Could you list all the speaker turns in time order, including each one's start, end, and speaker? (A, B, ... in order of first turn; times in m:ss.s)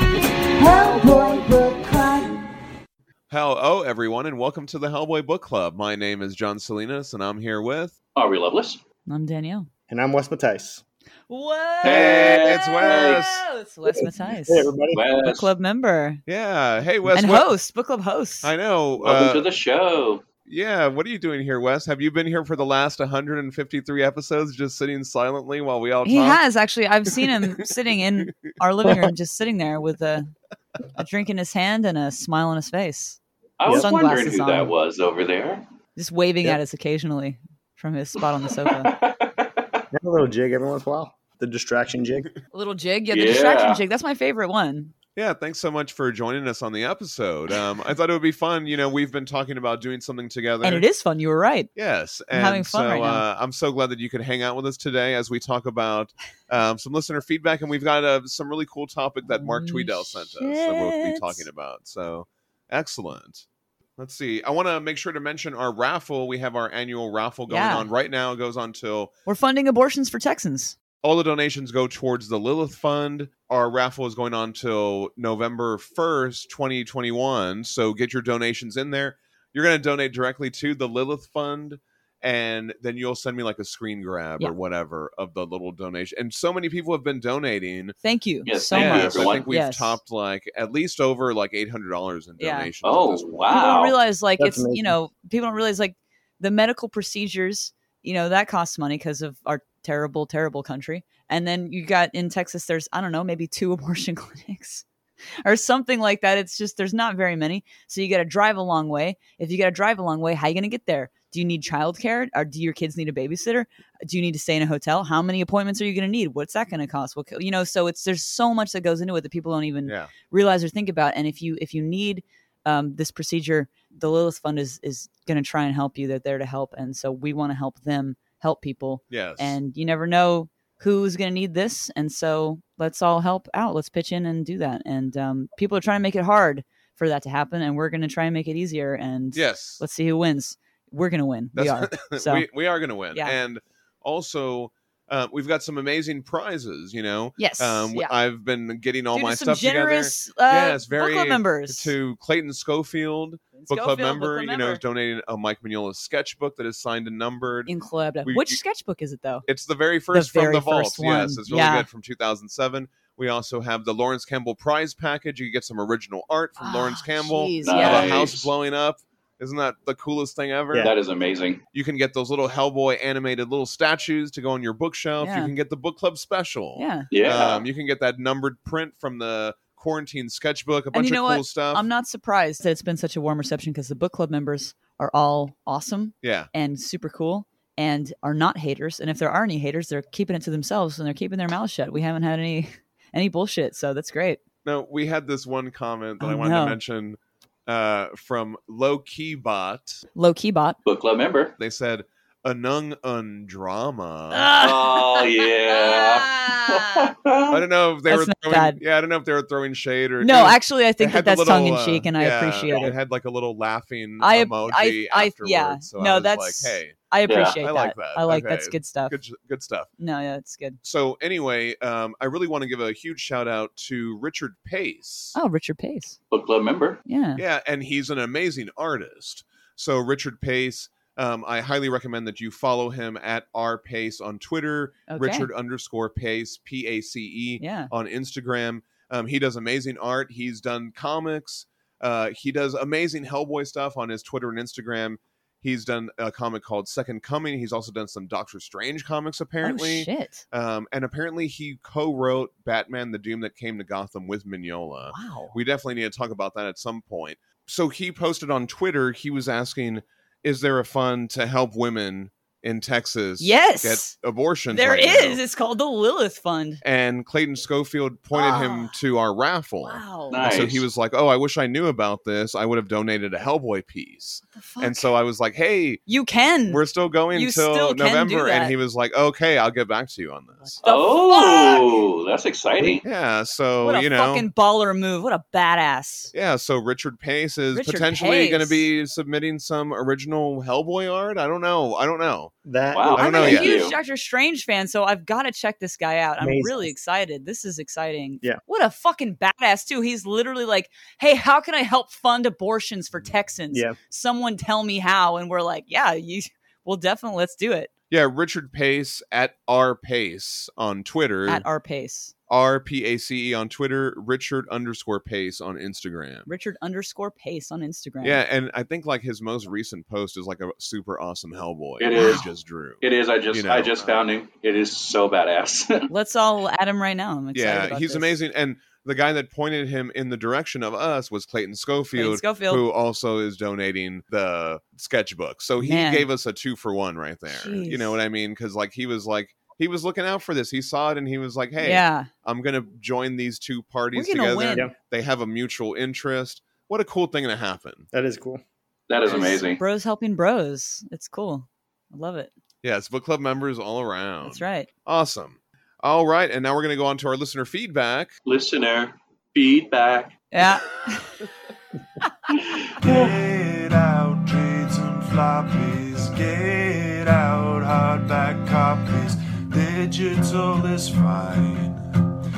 0:00.5-0:02.4 A
0:03.3-0:08.0 B
0:08.2-0:08.8 C
0:09.1-0:09.7 A
0:09.9-0:10.8 D
0:11.3-0:16.2 A
0:11.8-0:13.3 C
0:11.8-0:13.5 B
0:13.9-0:15.0 D
0:14.9-0:15.5 C
0:16.3-0:17.5 B
0:17.1-0:18.5 A
0:18.4-0:19.5 B
0:19.0-0:20.2 C
0:20.5-0:26.4 B
0:26.0-0:30.3 A
0:27.1-0:27.7 B
0:31.0-0:33.2 A
0:33.6-0:35.6 C
0:33.7-0:34.7 A
0:36.0-0:39.0 A
0:38.6-0:39.8 C
0:39.9-0:42.3 D
0:42.5-0:44.9 A
0:43.1-0:43.8 C
0:45.2-0:50.9 B
0:50.6-0:51.7 A
0:51.8-1:03.5 B
0:52.3-0:53.2 A
0:59.2-1:01.5 A
1:04.0-1:09.1 B
1:07.5-1:07.9 A
1:09.3-1:10.8 A
1:11.0-1:28.0 B
1:28.0-1:30.0 A
1:28.5-1:29.5 C
1:28.7-1:33.4 B
1:32.4-1:32.7 A
1:32.8-1:34.0 C
1:33.5-1:44.8 A
1:34.4-1:34.9 D
1:45.4-2:22.5 A
1:59.8-2:00.1 B
2:09.1-2:09.6 B
2:19.3-2:19.8 B
2:21.6-2:37.7 B
2:23.1-2:23.4 A
2:27.4-2:28.1 A
2:29.1-2:32.0 A
2:33.6-2:34.8 A
2:37.7-2:39.5 A
2:38.2-2:38.6 B
2:39.5-2:50.9 B
2:40.1-2:41.9 A
2:46.6-2:48.2 A
2:47.6-2:48.5 C
2:50.8-2:51.6 C
2:51.7-3:01.8 B
2:55.2-2:55.5 A
2:56.8-2:57.1 A
2:57.1-2:57.7 C
3:00.9-3:14.4 A
3:06.2-3:06.5 B
3:14.6-3:20.0 B
3:16.2-3:16.8 A
3:20.2-3:20.8 A
3:20.8-3:21.6 C
3:21.6-3:24.5 B
3:24.3-3:27.1 A
3:24.6-3:27.6 C
3:27.5-3:37.0 B
3:28.1-3:28.8 A
3:30.2-3:33.0 A
3:34.2-3:39.2 A
3:37.3-3:37.6 C
3:37.6-3:39.9 B
3:40.0-3:40.8 A
3:40.8-3:45.4 B
3:45.3-3:46.2 A
3:46.3-3:47.0 C
3:47.1-3:47.4 A
3:47.4-4:25.4 B
3:55.1-3:55.5 A
3:57.6-3:57.9 A
4:09.6-4:10.4 A
4:15.1-4:15.6 A
4:23.4-4:24.2 A
4:24.7-4:26.8 A
4:26.8-4:36.0 B
4:28.3-4:29.0 A
4:29.9-4:30.4 A
4:30.3-4:30.9 C
4:34.6-4:35.1 A
4:36.1-4:36.8 A
4:36.7-4:40.8 B
4:37.3-4:38.8 A
4:40.6-4:41.9 A
4:40.8-4:43.0 C
4:43.0-4:44.5 B
4:43.8-4:46.3 A
4:46.3-4:52.5 B
4:47.7-4:48.9 A
4:52.7-4:53.6 D
4:52.9-4:54.0 C
4:53.2-4:53.8 B
4:53.2-5:07.9 A
4:56.4-4:56.9 D
5:03.7-5:04.0 D
5:08.1-5:11.7 B
5:11.5-5:12.3 A
5:12.5-5:16.5 B
5:16.5-5:18.4 A
5:18.2-5:24.2 B
5:22.0-5:22.5 C
5:22.2-5:22.4 A
5:23.0-5:26.1 C
5:26.1-5:28.4 A
5:27.5-5:48.1 B
5:32.2-5:32.8 A
5:35.8-5:36.3 A
5:37.5-5:38.2 A
5:41.8-5:42.3 A
5:44.2-5:44.9 A
5:48.1-5:48.6 D
5:49.1-5:49.8 C
5:49.2-5:52.5 A
5:52.8-5:58.3 B
5:54.4-5:54.9 A
5:58.5-6:00.4 C
6:00.5-6:01.4 A
6:02.6-6:03.3 C
6:03.0-6:12.0 E